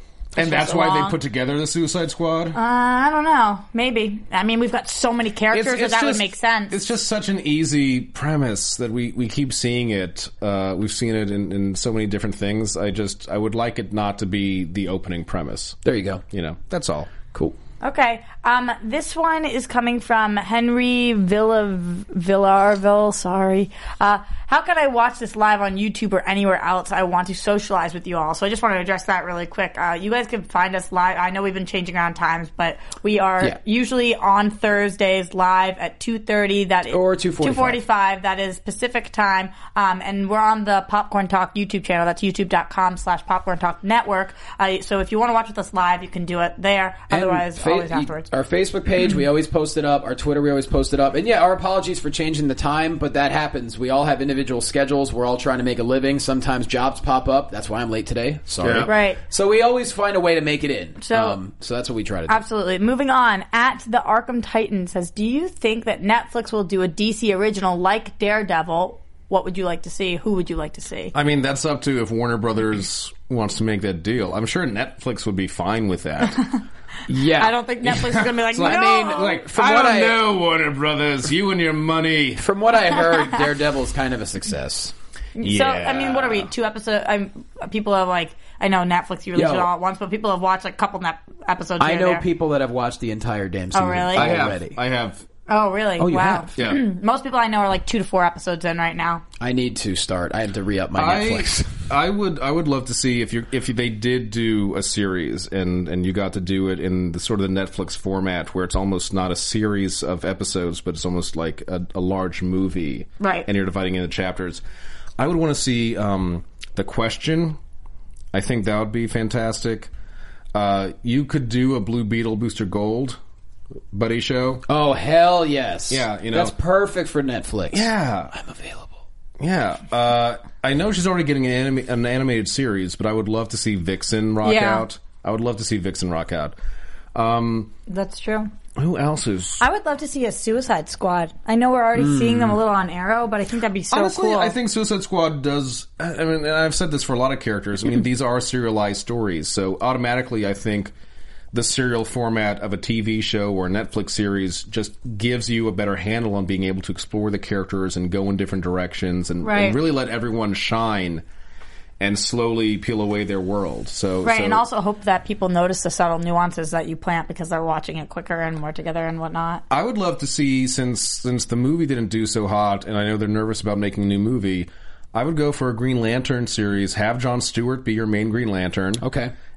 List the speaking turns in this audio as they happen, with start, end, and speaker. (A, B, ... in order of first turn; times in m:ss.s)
0:00.3-0:02.6 A
0:00.4-0:01.2 B
0:02.5-0:06.8 B
0:05.5-0:15.8 A
0:15.8-0:16.2 C
0:16.3-0:17.1 A
0:17.8-0:48.3 B
0:36.9-0:37.8 C
0:47.1-1:02.4 C
0:58.6-0:58.9 A
0:58.8-0:59.2 B
1:01.0-1:01.4 B
1:02.3-1:11.1 B
1:11.1-1:16.4 A
1:17.1-1:17.6 C
1:17.3-1:19.4 B
1:17.8-1:22.4 A
1:18.6-1:20.2 C
1:22.4-1:24.9 C
1:25.4-1:32.2 B
1:25.4-1:26.5 A
1:29.3-1:29.7 C
1:31.8-1:34.8 C
1:33.7-1:34.4 B
1:34.1-1:35.2 A
1:35.5-1:39.2 B
1:36.0-1:36.5 C
1:36.6-1:36.8 A
1:39.4-1:41.8 C
1:40.9-1:54.6 A
1:53.2-1:53.5 B
1:55.2-1:57.6 A
1:58.3-1:59.9 A
2:00.5-2:03.2 A
2:03.9-2:04.6 A
2:04.7-2:09.0 C
2:05.9-2:06.6 A
2:07.7-2:08.3 A
2:09.4-2:16.6 A
2:14.4-2:14.9 B
2:17.1-2:17.7 A
2:17.9-2:18.5 B
2:18.8-2:19.6 A
2:19.6-2:24.6 B
2:22.0-2:22.6 C
2:23.9-2:30.9 A
2:31.5-2:41.2 A
2:39.4-2:39.8 B
2:42.0-2:44.6 A
2:44.2-2:49.6 B
2:49.7-2:59.0 A
2:59.0-2:59.3 C